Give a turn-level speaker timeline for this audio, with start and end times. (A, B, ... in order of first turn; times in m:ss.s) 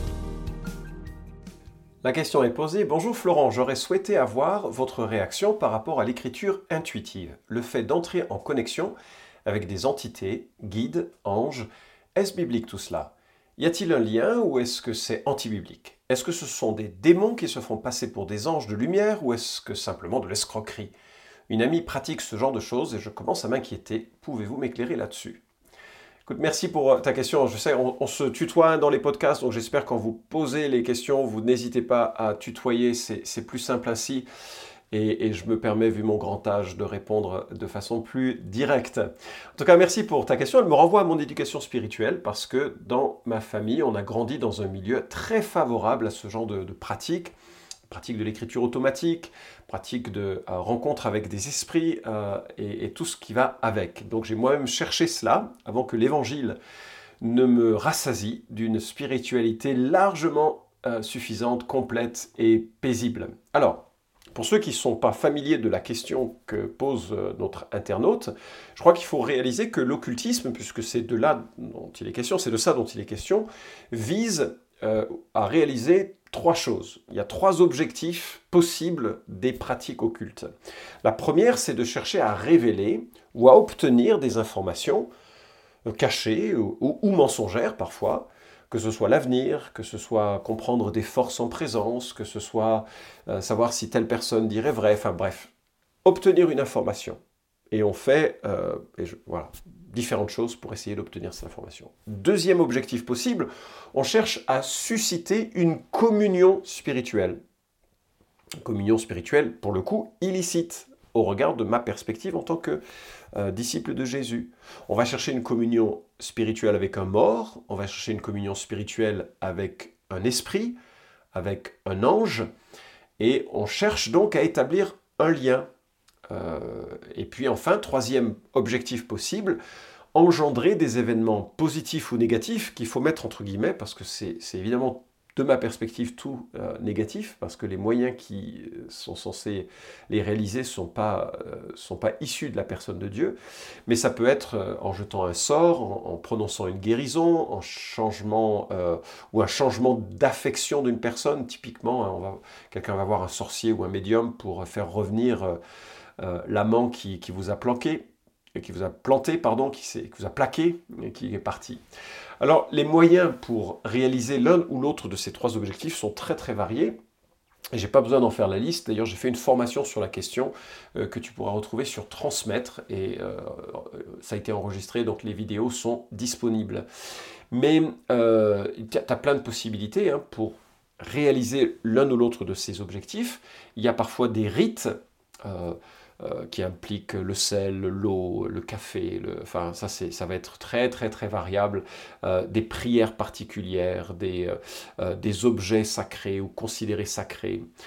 0:02.0-0:08.9 A
0:09.4-0:20.9 A
0:21.5-0:25.4 A
0:26.2-0:34.3 A
0:34.9-0:47.3 A
0:47.9-0:56.6 A
0:57.2-1:20.5 A
1:21.0-1:25.1 A
1:25.8-1:35.5 A
1:36.0-1:37.2 A
1:37.7-1:47.4 A
1:48.6-1:52.8 A
1:53.3-2:00.8 A
2:01.3-2:02.5 A
2:03.2-2:05.7 A
2:06.3-2:09.6 A
2:10.1-2:23.4 A
2:23.9-2:35.6 A
2:36.2-2:41.8 A
2:42.4-2:47.0 A
2:47.7-2:56.8 A
2:57.5-3:17.6 A